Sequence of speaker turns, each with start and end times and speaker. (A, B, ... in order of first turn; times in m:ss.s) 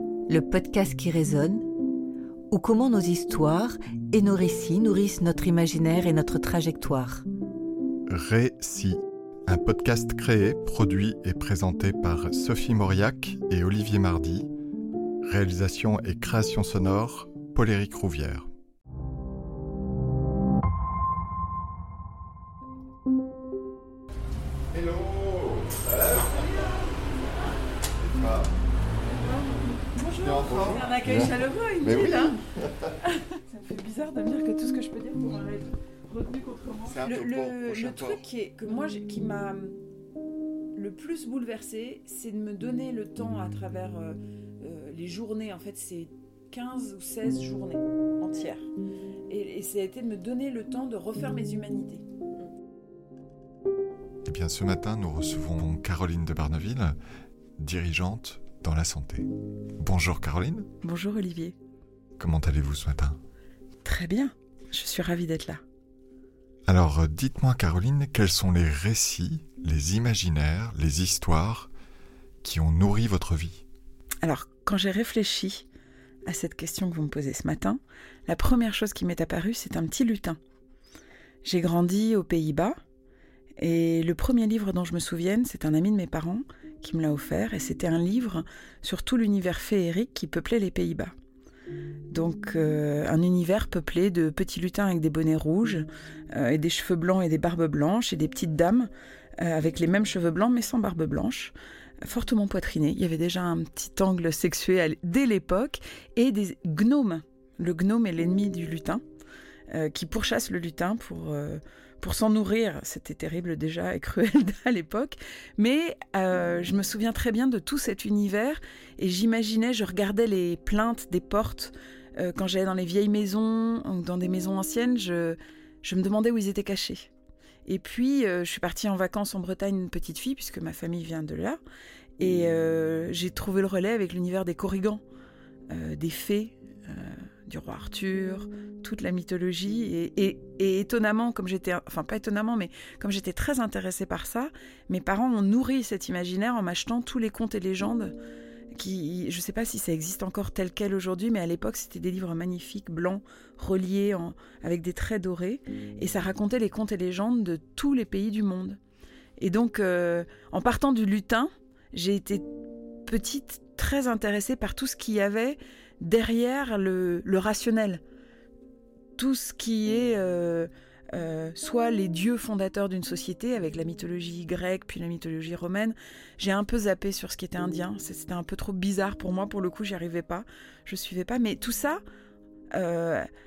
0:00.3-0:01.7 A
0:02.5-0:07.2 A
0:08.1-0:14.5 B
0:15.2-0:18.5 B
0:24.7-0:26.7 B
0:27.9-0:28.5 B
0:29.2-0:32.4 C
0:30.0-0:32.9 B
0:33.0-0:39.8 C
0:36.8-0:38.2 B
0:40.7-0:48.7 C
0:49.3-0:52.0 C
0:54.2-0:56.9 B
0:57.6-1:00.7 B
1:00.8-1:01.6 C
1:02.2-1:03.2 B
1:03.8-1:05.6 C
1:06.7-1:11.7 B
1:12.4-1:13.6 B
1:14.2-1:15.6 C
1:16.2-1:20.4 C
1:21.4-1:22.8 C
1:23.6-1:31.1 C
1:32.1-1:49.0 C
1:49.7-2:07.1 C
2:07.6-2:11.6 C
2:12.2-2:15.0 C
2:15.7-2:28.1 C
2:28.7-2:38.8 C
2:39.4-2:42.4 C
2:43.0-2:48.0 C
2:49.2-3:02.0 C
3:02.7-3:03.3 C